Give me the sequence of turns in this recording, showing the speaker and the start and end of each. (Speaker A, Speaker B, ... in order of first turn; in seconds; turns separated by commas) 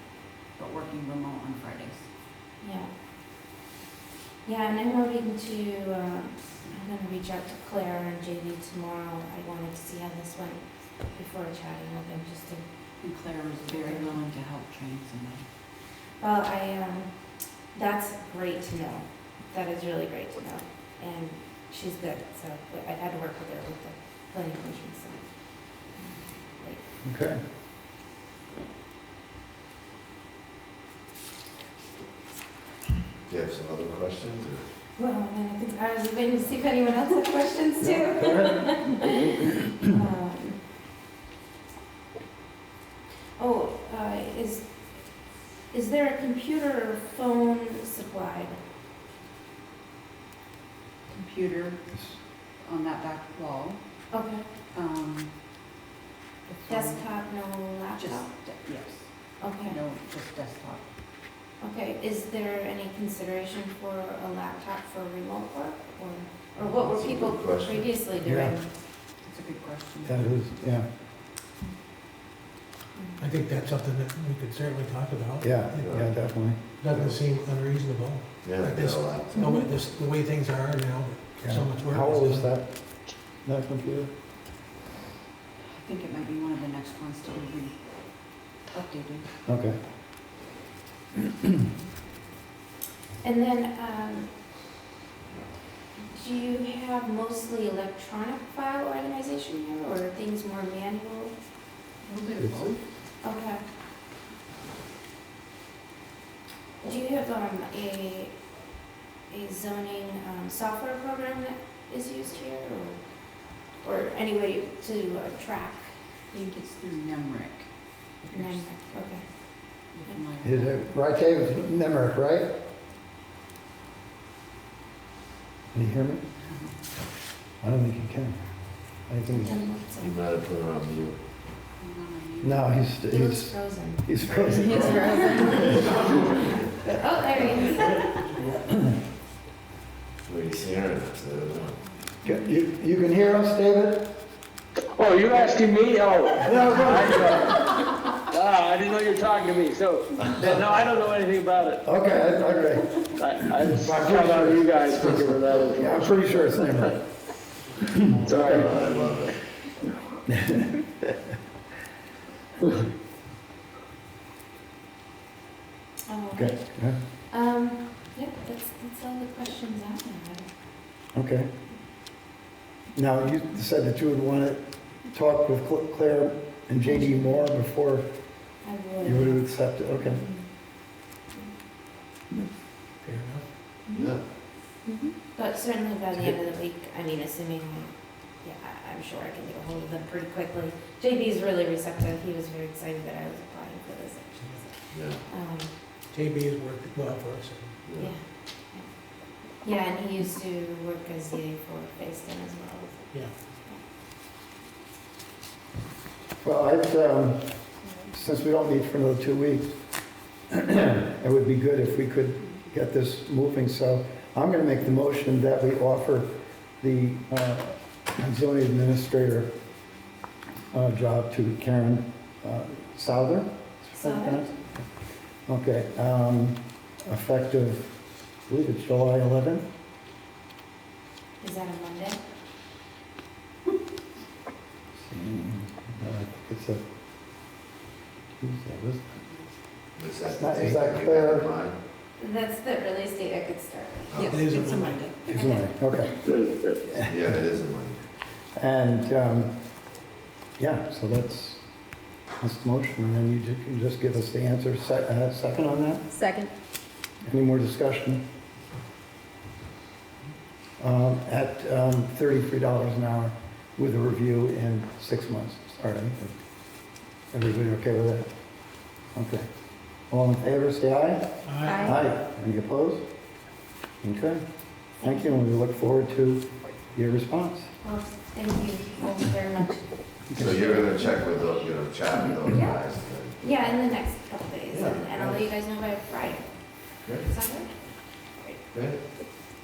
Speaker A: 0.6-2.0, Speaker B: 2.6-2.9, Speaker B: 4.4-12.6, Speaker A: 13.0-15.4, Speaker B: 13.7-14.2, Speaker B: 16.2-17.1, Speaker B: 17.7-25.3, Speaker C: 27.0-27.4, Speaker D: 33.3-34.6, Speaker B: 35.0-40.6, Speaker B: 43.4-44.7, Speaker B: 45.7-48.6, Speaker A: 51.1-51.8, Speaker A: 52.6-53.8, Speaker B: 54.1-54.4, Speaker A: 54.7-55.3, Speaker A: 56.5-57.0, Speaker B: 56.7-58.3, Speaker A: 57.9-59.0, Speaker B: 59.4-59.8, Speaker A: 59.6-60.8, Speaker B: 61.6-68.7, Speaker D: 66.8-68.0, Speaker C: 68.2-68.6, Speaker A: 69.2-70.3, Speaker C: 70.0-70.8, Speaker E: 73.2-75.9, Speaker C: 75.4-76.6, Speaker D: 75.8-76.1, Speaker E: 76.8-82.5, Speaker D: 76.9-77.2, Speaker D: 78.4-79.6, Speaker C: 81.4-82.8, Speaker C: 83.4-84.1, Speaker A: 85.7-87.8, Speaker A: 88.7-89.3, Speaker C: 89.5-89.8, Speaker B: 93.2-94.3, Speaker B: 96.1-101.3, Speaker A: 102.0-102.7, Speaker C: 102.4-102.7, Speaker B: 103.2-103.6, Speaker B: 106.8-108.3, Speaker B: 109.3-113.0, Speaker B: 113.8-115.9, Speaker A: 116.3-117.7, Speaker A: 118.2-118.6, Speaker B: 118.3-119.2, Speaker A: 119.9-120.9, Speaker C: 120.4-122.5, Speaker C: 125.7-126.2, Speaker A: 126.4-126.7, Speaker C: 127.6-128.4, Speaker C: 129.1-129.6, Speaker B: 129.3-130.2, Speaker D: 130.0-131.2, Speaker A: 131.8-132.7, Speaker C: 132.4-135.6, Speaker B: 133.1-134.0, Speaker A: 134.5-135.7, Speaker B: 134.6-136.3, Speaker D: 135.6-136.5, Speaker B: 136.9-138.6, Speaker D: 140.2-141.8, Speaker C: 142.2-144.1, Speaker F: 144.9-151.8, Speaker C: 146.4-147.6, Speaker C: 151.8-152.9, Speaker F: 153.2-156.1, Speaker C: 153.6-154.8, Speaker C: 155.7-157.0, Speaker C: 157.8-158.6, Speaker F: 158.2-158.7, Speaker D: 158.3-159.4, Speaker C: 160.3-161.2, Speaker B: 166.1-166.6, Speaker C: 166.3-167.0, Speaker B: 167.3-170.5, Speaker C: 171.1-171.5, Speaker C: 172.9-178.1, Speaker B: 176.8-177.4, Speaker B: 178.6-179.4, Speaker C: 179.0-180.2, Speaker B: 180.0-180.5, Speaker E: 183.0-183.4, Speaker B: 183.9-184.1, Speaker D: 183.9-184.2, Speaker B: 185.2-187.9, Speaker B: 188.4-194.7, Speaker D: 194.9-195.2, Speaker B: 195.3-195.7, Speaker E: 196.1-197.8, Speaker D: 197.8-198.1, Speaker B: 199.6-203.2, Speaker C: 206.4-207.5, Speaker C: 208.1-209.7, Speaker C: 210.5-219.5, Speaker C: 220.7-224.5, Speaker B: 223.9-224.5, Speaker C: 225.5-227.9, Speaker C: 228.5-229.6, Speaker B: 231.4-232.2, Speaker C: 235.0-236.8, Speaker C: 238.4-239.2, Speaker D: 239.9-241.8, Speaker C: 240.2-241.5, Speaker B: 242.2-244.7, Speaker D: 244.1-244.4, Speaker A: 244.1-245.2, Speaker E: 244.3-245.0, Speaker C: 245.3-246.2, Speaker B: 245.3-245.7, Speaker F: 246.2-246.8, Speaker C: 246.9-247.4, Speaker D: 247.0-248.0, Speaker C: 248.6-249.5, Speaker C: 250.6-251.6, Speaker C: 252.4-256.2, Speaker C: 257.2-258.2, Speaker C: 260.8-266.3, Speaker C: 267.3-268.3, Speaker C: 269.1-269.5, Speaker C: 270.1-273.0, Speaker E: 271.4-271.9, Speaker B: 271.6-272.0, Speaker C: 274.0-274.4, Speaker B: 275.0-275.4, Speaker C: 275.0-277.7, Speaker B: 277.8-279.9, Speaker C: 280.3-280.8, Speaker D: 280.3-283.4, Speaker B: 280.4-281.5, Speaker B: 282.4-282.8, Speaker B: 283.4-286.5, Speaker D: 284.7-285.4, Speaker D: 287.0-287.3, Speaker B: 287.2-287.7, Speaker D: 288.7-289.0